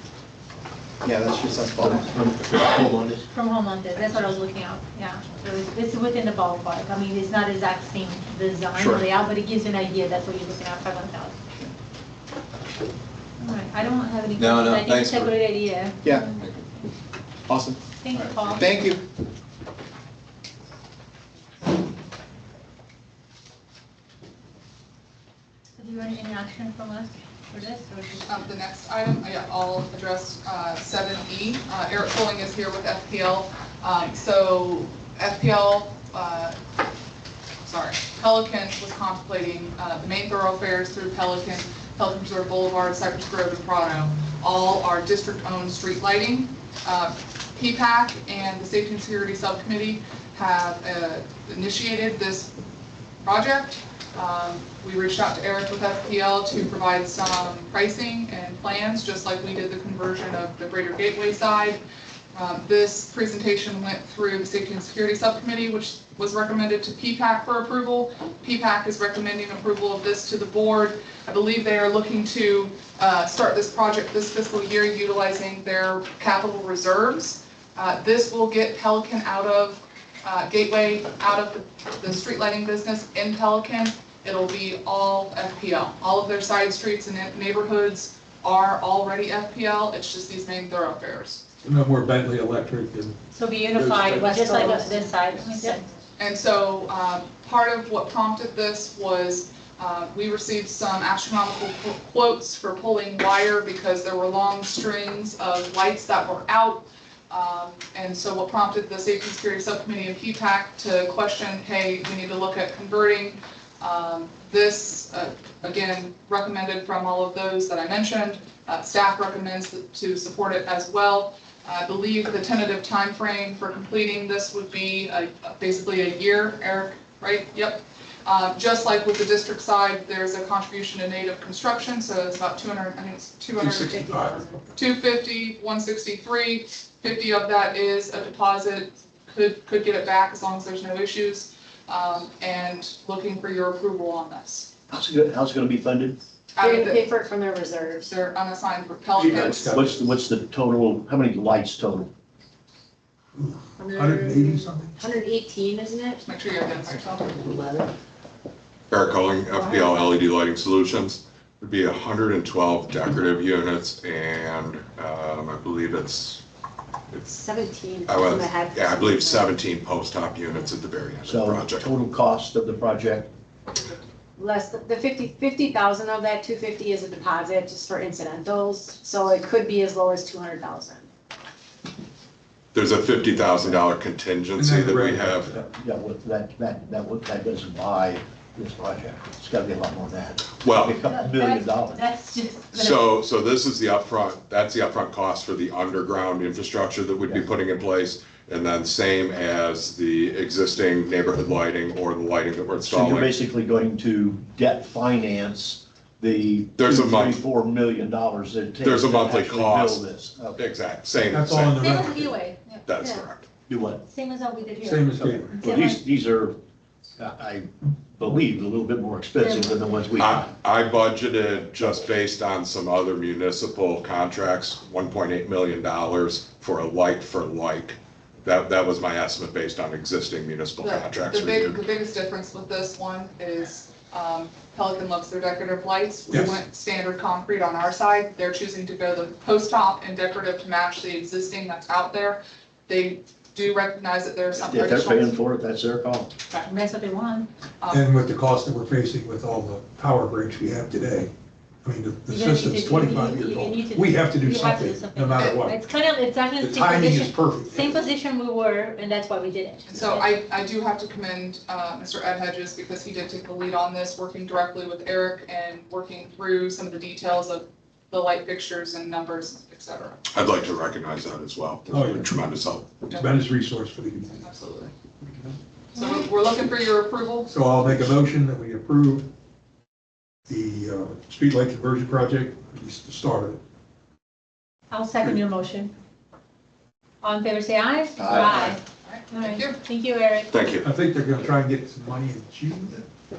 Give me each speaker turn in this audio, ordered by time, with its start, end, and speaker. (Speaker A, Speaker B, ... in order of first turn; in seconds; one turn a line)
Speaker A: 1.0-2.0
Speaker B: 1.7-3.2
Speaker C: 3.3-11.4
Speaker A: 8.8-9.1
Speaker C: 13.4-16.8
Speaker A: 14.4-15.3
Speaker A: 16.0-16.6
Speaker A: 17.5-19.0
Speaker C: 18.0-19.0
Speaker C: 25.8-28.4
Speaker D: 28.3-36.6
Speaker D: 37.6-52.5
Speaker D: 53.2-61.8
Speaker D: 62.3-91.4
Speaker E: 91.7-93.2
Speaker C: 93.3-95.8
Speaker E: 93.8-94.4
Speaker F: 94.3-95.0
Speaker D: 96.2-144.7
Speaker E: 133.6-134.6
Speaker B: 144.9-146.2
Speaker D: 146.6-147.2
Speaker F: 146.6-148.1
Speaker D: 148.0-149.8
Speaker E: 149.2-150.1
Speaker B: 149.3-152.1
Speaker E: 153.4-155.0
Speaker F: 153.8-156.2
Speaker D: 156.2-157.4
Speaker F: 157.4-157.9
Speaker G: 158.9-166.4
Speaker F: 167.3-169.5
Speaker G: 168.1-171.9
Speaker B: 171.2-173.3
Speaker D: 173.7-174.0
Speaker F: 174.4-181.1
Speaker G: 182.7-185.5
Speaker E: 184.6-185.7
Speaker B: 185.6-192.0
Speaker G: 190.6-191.0
Speaker C: 191.0-193.1
Speaker G: 192.7-203.3
Speaker B: 202.8-210.6
Speaker G: 206.8-207.4
Speaker G: 208.8-210.1
Speaker G: 210.6-212.1
Speaker E: 211.3-212.3
Speaker C: 211.8-212.8
Speaker G: 212.9-213.5
Speaker B: 213.7-214.0
Speaker C: 214.1-216.0
Speaker E: 214.8-215.6
Speaker B: 215.6-216.6
Speaker B: 217.2-220.5
Speaker G: 220.2-231.8
Speaker D: 230.8-245.3
Speaker E: 236.3-236.6
Speaker B: 244.6-246.3
Speaker C: 246.7-247.5
Speaker D: 247.8-248.1
Speaker E: 247.9-251.3
Speaker E: 251.8-255.8
Speaker C: 252.3-260.3
Speaker E: 256.6-258.0
Speaker D: 259.9-270.2
Speaker G: 270.3-272.9
Speaker E: 271.9-272.5
Speaker E: 273.1-274.4
Speaker D: 274.3-274.9
Speaker D: 275.9-277.5
Speaker E: 277.5-279.3
Speaker E: 280.5-283.6
Speaker C: 284.9-285.9
Speaker C: 287.2-290.5
Speaker B: 288.2-288.7
Speaker D: 288.4-289.8
Speaker G: 290.5-290.9
Speaker E: 290.8-293.1